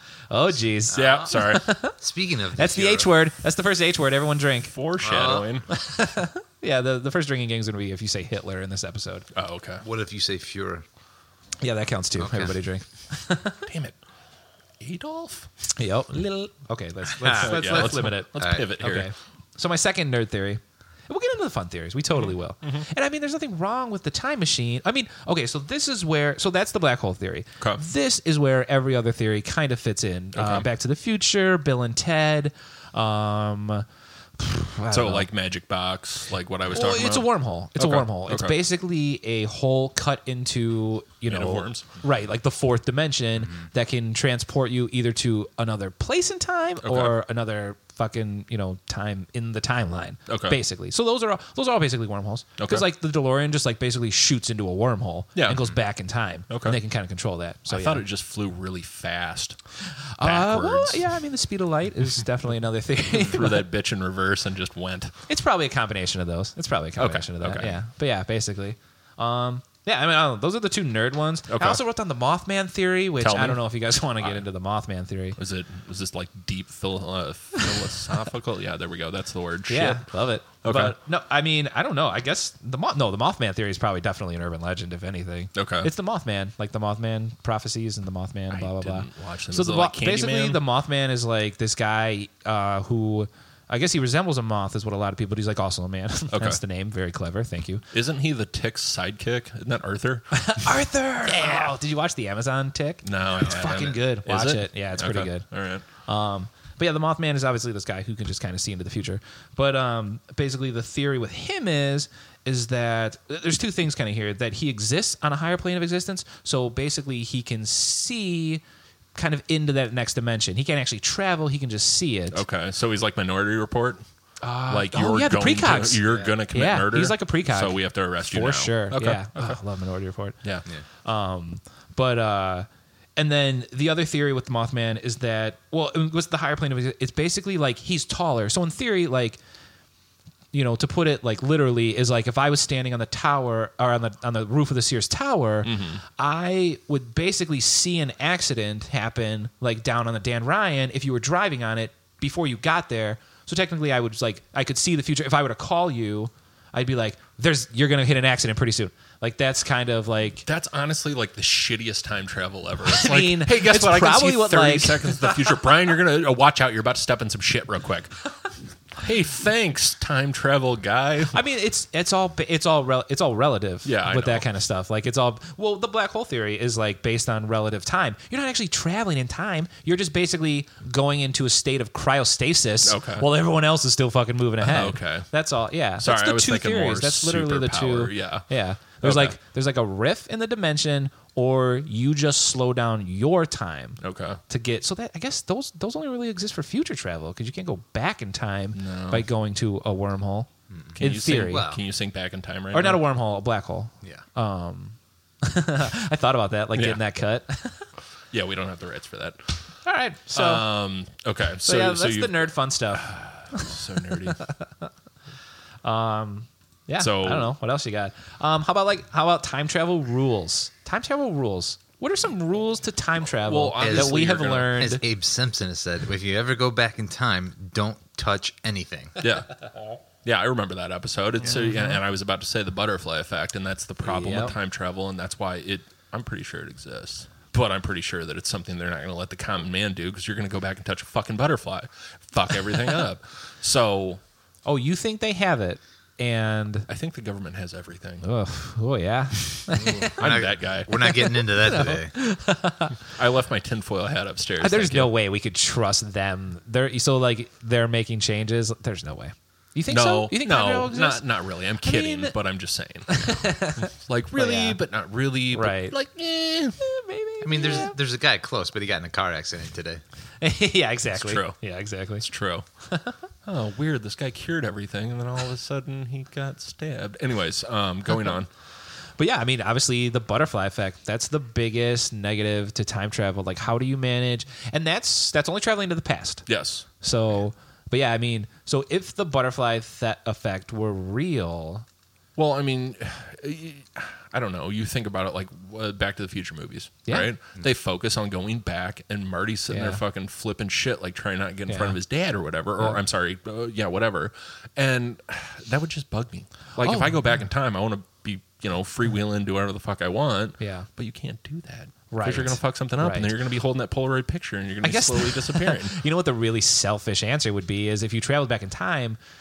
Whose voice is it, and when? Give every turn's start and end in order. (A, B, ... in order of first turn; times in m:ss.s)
0:00.3-0:01.9 A
0:00.9-0:01.4 B
0:00.9-0:01.8 C
0:02.0-0:03.1 B
0:02.6-0:04.7 A
0:04.7-0:05.7 C
0:05.0-0:05.6 B
0:05.7-0:09.3 A
0:09.3-0:09.8 C
0:09.8-0:10.8 B
0:11.6-0:13.6 A
0:12.2-0:12.6 B
0:13.7-0:14.0 C
0:14.8-0:15.5 C
0:15.8-0:33.8 A
0:17.1-0:18.7 B
0:17.4-0:19.1 C
0:22.1-0:22.8 C
0:30.3-0:30.7 C
0:34.4-0:35.3 A
0:34.9-0:38.6 C
0:36.7-0:58.0 A
0:41.3-0:41.9 C
0:46.8-0:47.2 C
0:50.3-0:50.6 C
0:52.6-0:52.9 C
0:55.3-0:55.6 C
0:56.5-0:56.8 C
0:57.7-0:59.6 C
0:59.9-1:03.7 A
1:00.2-1:01.1 C
1:03.1-1:05.1 C
1:05.3-1:15.4 A
1:07.0-1:07.8 C
1:11.5-1:11.8 C
1:13.2-1:13.6 C
1:15.4-1:20.0 C
1:17.6-1:18.0 A
1:19.7-1:37.8 A
1:20.6-1:21.0 C
1:25.5-1:25.9 C
1:28.5-1:30.6 C
1:36.3-1:36.6 C
1:37.9-1:40.7 C
1:40.3-1:45.5 A
1:41.2-1:41.7 C
1:43.0-1:45.8 C
1:46.0-1:58.6 A
1:59.1-2:02.4 A
2:02.3-2:04.0 C
2:04.4-2:10.4 A
2:04.7-2:09.6 C
2:06.0-2:06.3 B
2:11.0-2:19.4 A
2:20.5-2:40.5 A
2:25.6-2:26.0 C
2:40.4-2:48.2 C
2:42.8-2:45.5 A
2:48.9-2:51.4 C
2:51.3-3:21.6 A
2:53.8-2:54.4 C
3:02.8-3:03.3 C
3:04.6-3:05.3 C
3:06.0-3:08.4 C
3:09.0-3:09.3 C
3:14.0-3:14.4 C
3:18.7-3:19.3 C
3:20.7-3:21.8 B
3:21.0-3:23.0 C
3:22.7-3:27.8 A
3:26.7-3:27.0 C
3:28.3-3:29.6 C
3:29.8-3:30.6 A
3:30.3-3:34.4 C
3:31.6-3:34.8 A
3:35.8-3:45.0 A
3:37.0-3:37.5 C
3:43.5-3:44.8 C
3:43.8-3:49.2 B
3:49.2-3:49.5 C
3:50.2-4:04.2 C
3:51.4-3:52.0 A
3:54.1-3:54.5 B
4:04.6-4:06.9 A
4:06.9-4:08.2 C
4:08.2-4:10.2 A
4:09.7-4:12.1 B
4:10.2-4:11.1 C
4:11.0-4:13.0 A
4:13.0-4:15.1 C
4:14.6-4:21.2 A
4:19.9-4:26.8 C
4:21.8-4:22.3 A
4:23.1-4:24.8 A
4:25.5-4:26.0 A
4:26.8-4:27.9 A
4:27.4-4:30.0 B
4:30.4-4:32.2 A
4:31.1-4:31.6 C
4:32.2-4:32.6 C
4:32.9-4:33.2 A
4:33.4-4:38.5 C
4:39.2-4:46.5 A
4:46.5-4:46.8 C
4:47.0-4:51.8 A
4:52.4-5:16.0 C
4:59.7-5:00.0 A
5:01.7-5:02.0 A
5:06.8-5:07.4 A
5:10.6-5:10.9 A
5:12.1-5:13.3 A
5:14.8-5:19.2 A